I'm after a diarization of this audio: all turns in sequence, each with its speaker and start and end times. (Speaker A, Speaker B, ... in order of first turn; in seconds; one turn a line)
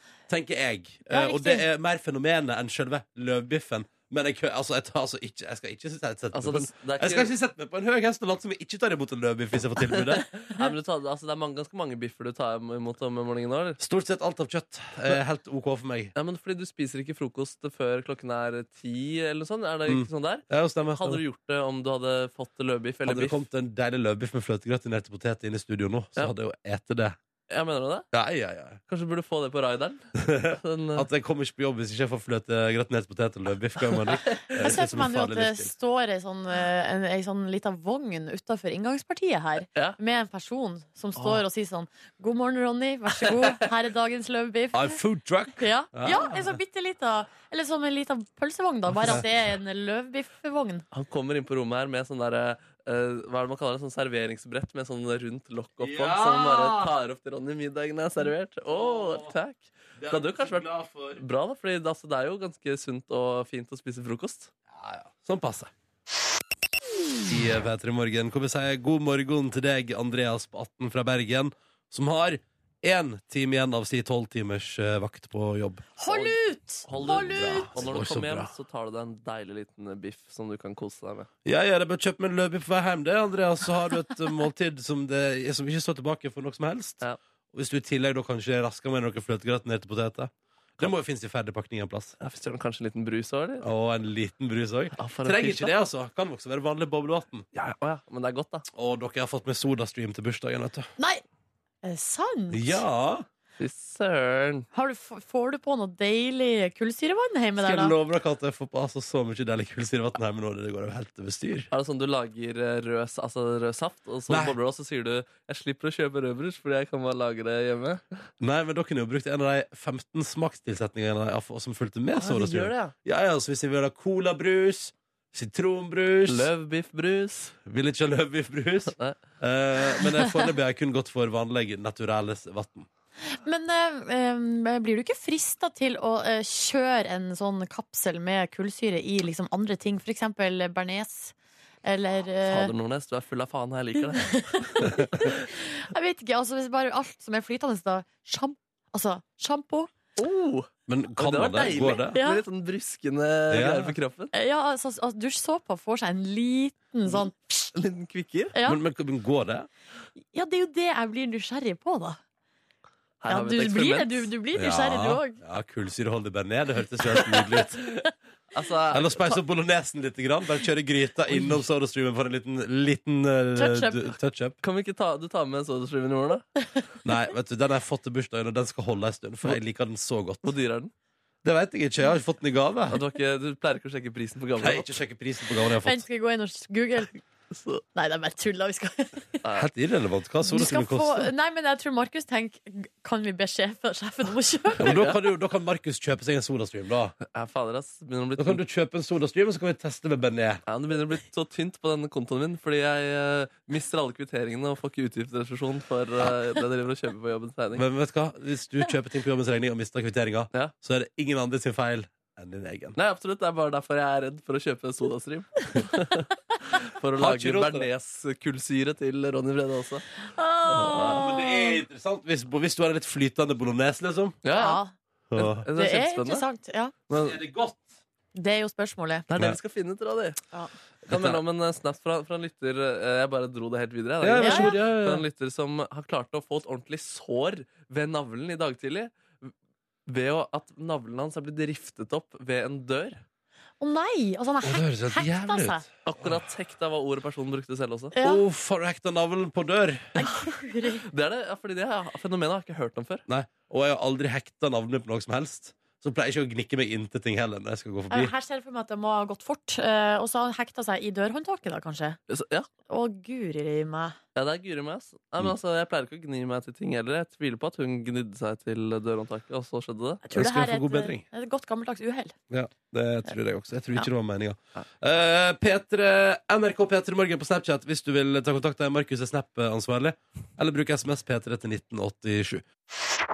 Speaker A: 0.3-10.3
Speaker B: 1.1-1.7
Speaker C: 6.3-7.3
Speaker C: 9.9-13.8
Speaker A: 13.8-16.1
Speaker C: 16.1-23.4
Speaker A: 19.9-21.2
Speaker A: 23.1-27.2
Speaker C: 27.5-28.1
Speaker A: 28.1-28.8
Speaker C: 28.9-31.1
Speaker A: 30.2-35.7
Speaker C: 33.8-34.7
Speaker B: 34.6-45.0
Speaker C: 41.2-41.4
Speaker A: 44.7-46.6
Speaker B: 45.6-50.9
Speaker C: 50.9-64.5
Speaker A: 55.8-56.9
Speaker A: 58.7-59.3
Speaker A: 60.0-61.2
Speaker A: 64.7-65.7
Speaker A: 67.3-75.8
Speaker B: 76.0-77.7
Speaker C: 76.1-76.4
Speaker C: 76.9-81.3
Speaker A: 77.0-78.5
Speaker A: 81.5-87.0
Speaker A: 87.5-92.2
Speaker C: 92.2-93.6
Speaker A: 93.6-97.5
Speaker C: 95.0-95.8
Speaker C: 97.5-98.7
Speaker A: 98.7-100.9
Speaker B: 101.0-101.2
Speaker B: 101.8-102.8
Speaker A: 102.5-103.3
Speaker C: 103.6-104.7
Speaker B: 104.7-107.9
Speaker A: 107.6-111.7
Speaker C: 111.7-118.3
Speaker A: 114.3-114.6
Speaker A: 118.4-126.5
Speaker C: 122.2-122.9
Speaker C: 126.3-127.5
Speaker A: 127.7-132.9
Speaker B: 133.3-141.3
Speaker B: 141.8-142.7
Speaker C: 142.5-145.3
Speaker B: 144.1-149.9
Speaker C: 150.2-154.3
Speaker A: 150.9-152.2
Speaker B: 152.2-152.4
Speaker A: 153.5-153.9
Speaker B: 154.3-157.7
Speaker C: 157.8-158.5
Speaker B: 158.5-158.8
Speaker A: 158.7-159.7
Speaker B: 160.3-162.2
Speaker C: 163.2-164.3
Speaker B: 163.3-165.4
Speaker A: 164.5-167.8
Speaker C: 167.1-167.7
Speaker C: 168.5-169.4
Speaker A: 168.9-174.6
Speaker C: 171.3-171.6
Speaker B: 173.6-174.1
Speaker C: 174.6-176.5
Speaker A: 177.1-180.5
Speaker C: 180.4-180.9
Speaker A: 181.4-183.0
Speaker C: 182.9-184.9
Speaker A: 184.6-186.1
Speaker B: 185.8-187.2
Speaker C: 187.5-187.8
Speaker B: 187.9-189.4
Speaker A: 189.6-191.3
Speaker B: 190.4-195.0
Speaker C: 194.8-195.2
Speaker A: 194.8-197.1
Speaker C: 197.2-198.6
Speaker A: 198.4-200.6
Speaker C: 200.7-207.8
Speaker A: 207.7-213.0
Speaker C: 213.0-220.1
Speaker A: 217.2-217.9
Speaker B: 220.2-221.8
Speaker C: 220.7-221.3
Speaker A: 220.8-224.4
Speaker C: 224.4-224.8
Speaker B: 224.5-224.9
Speaker A: 225.3-225.7
Speaker C: 225.4-226.4
Speaker B: 225.8-226.9
Speaker C: 227.1-227.4
Speaker A: 227.1-228.0
Speaker B: 228.3-229.3
Speaker C: 229.3-230.4
Speaker A: 231.1-231.4
Speaker C: 231.1-239.5
Speaker A: 234.2-235.2
Speaker B: 234.4-234.8
Speaker C: 240.1-243.2
Speaker B: 243.8-245.8
Speaker A: 244.6-246.4
Speaker C: 246.1-248.1
Speaker B: 248.1-248.4
Speaker A: 248.2-250.2
Speaker B: 250.2-251.0
Speaker C: 251.1-253.2
Speaker A: 253.3-258.3
Speaker B: 258.1-262.2
Speaker C: 262.3-262.7
Speaker B: 262.9-264.2
Speaker C: 264.4-270.2
Speaker B: 270.2-272.4
Speaker A: 270.3-271.2
Speaker A: 272.5-282.7